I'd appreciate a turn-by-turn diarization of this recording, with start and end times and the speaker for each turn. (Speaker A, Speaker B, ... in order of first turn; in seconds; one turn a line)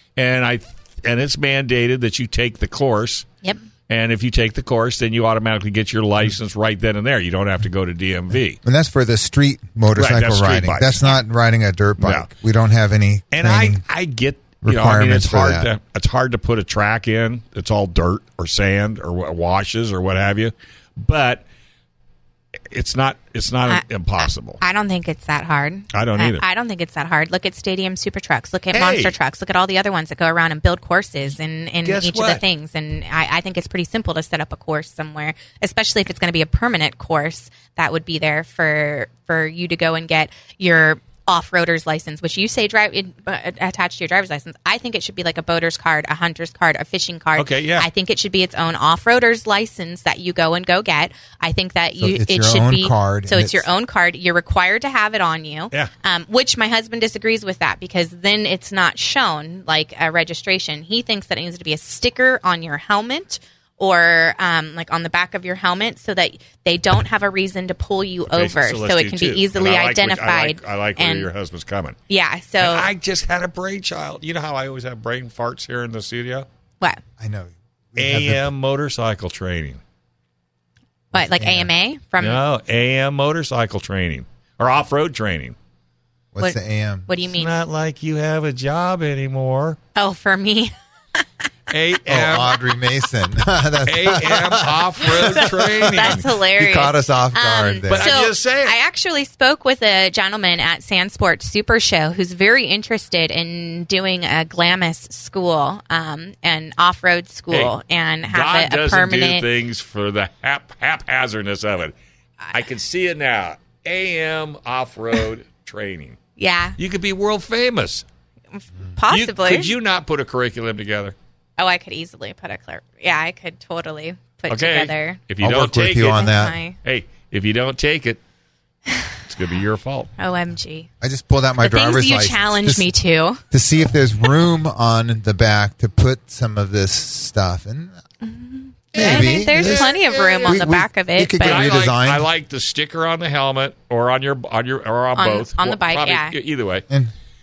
Speaker A: 0.1-3.2
Speaker A: 3.9-8.6
Speaker B: 8.6-13.8
Speaker A: 9.9-11.0
Speaker A: 12.0-12.3
Speaker A: 13.3-21.4
Speaker B: 14.6-15.7
Speaker A: 22.7-24.6
Speaker C: 23.7-71.3
Speaker A: 25.9-26.4
Speaker A: 28.7-29.1
Speaker A: 31.8-32.4
Speaker A: 47.4-47.9
Speaker B: 52.0-53.7
Speaker A: 68.3-72.0
Speaker C: 72.1-72.9
Speaker A: 72.6-76.5
Speaker B: 77.2-78.5
Speaker A: 78.0-79.8
Speaker B: 81.1-81.7
Speaker C: 81.1-82.4
Speaker A: 82.2-85.5
Speaker B: 86.3-87.1
Speaker C: 86.4-87.5
Speaker A: 87.3-89.8
Speaker C: 89.9-91.2
Speaker A: 91.7-92.6
Speaker B: 92.1-98.1
Speaker A: 93.8-96.2
Speaker C: 95.2-109.5
Speaker A: 97.9-98.7
Speaker A: 108.3-111.9
Speaker A: 112.5-116.2
Speaker C: 116.4-116.8
Speaker A: 116.8-118.0
Speaker C: 118.5-119.7
Speaker A: 119.1-121.1
Speaker C: 121.6-125.2
Speaker A: 124.5-126.3
Speaker B: 125.4-126.5
Speaker C: 126.1-126.8
Speaker A: 126.8-128.2
Speaker A: 129.3-130.1
Speaker C: 130.2-130.9
Speaker B: 131.0-132.9
Speaker C: 131.6-133.4
Speaker B: 133.5-137.9
Speaker C: 138.2-141.6
Speaker B: 138.9-139.9
Speaker A: 138.9-140.6
Speaker B: 140.4-142.3
Speaker A: 141.4-146.8
Speaker C: 145.2-146.3